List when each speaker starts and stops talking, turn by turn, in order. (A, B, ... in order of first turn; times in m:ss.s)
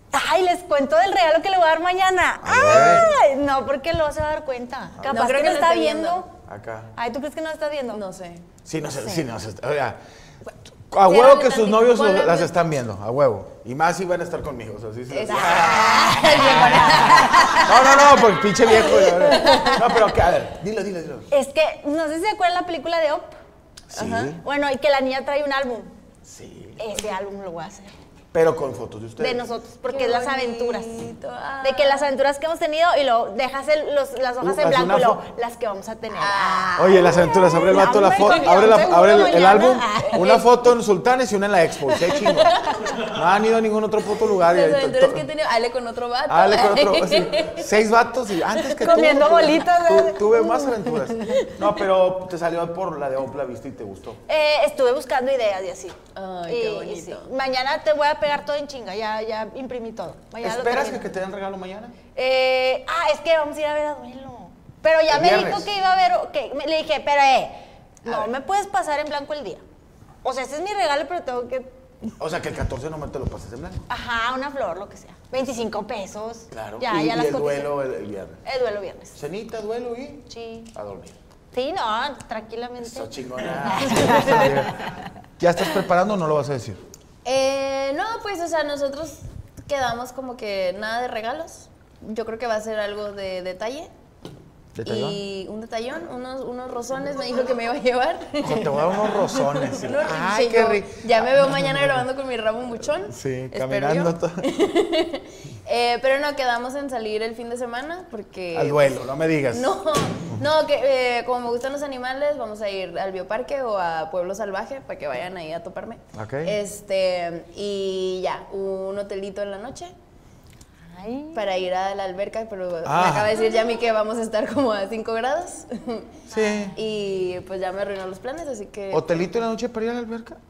0:00.1-0:06.3 A
0:02.4-0:03.1 B
0:02.6-0:03.1 C
0:05.0-0:05.5 B
0:05.1-0:06.2 C
0:06.4-0:06.9 B
0:07.0-0:08.0 A
0:07.9-0:08.5 C
0:08.6-0:10.0 B
0:10.9-0:21.3 B
0:11.0-0:12.5 C
0:15.1-0:19.9 C
0:15.3-0:17.7 A
0:18.8-0:19.8 A
0:21.3-0:23.4 A
0:23.9-0:24.4 B
0:23.9-0:24.4 C
0:24.4-0:25.9 A
0:26.2-0:27.0 B
0:26.8-0:27.9 A
0:28.3-0:29.4 B
0:29.2-0:31.0 A
0:29.9-0:32.1 C
0:31.6-0:40.6 A
0:34.4-0:35.2 B
0:36.1-0:39.1 C
0:36.8-0:45.3 B
0:44.4-0:47.7 C
0:46.3-0:54.2 B
0:48.7-0:49.3 C
0:48.8-0:51.5 A
0:54.3-0:56.0 A
0:56.2-0:57.3 C
0:56.5-1:01.0 A
1:00.4-1:02.0 B
1:02.2-1:09.6 A
1:05.1-1:05.7 B
1:08.0-1:08.3 B
1:10.2-1:11.7 A
1:12.2-1:13.8 B
1:13.9-1:17.8 A
1:16.5-1:18.4 B
1:18.4-1:19.2 A
1:19.2-1:21.2 B
1:20.3-1:20.7 A
1:21.5-1:23.1 A
1:22.8-1:24.8 B
1:23.6-1:24.7 A
1:25.4-1:26.8 B
1:27.2-1:33.9 C
1:34.8-1:35.2 B
1:34.8-1:59.9 C
1:38.4-1:42.1 B
1:43.1-1:44.5 B
1:48.5-1:49.8 B
1:56.1-1:56.6 B
2:00.9-2:01.4 A
2:01.3-2:06.2 C
2:02.8-2:03.4 B
2:06.3-2:06.8 B
2:06.8-2:09.3 C
2:08.9-2:10.4 B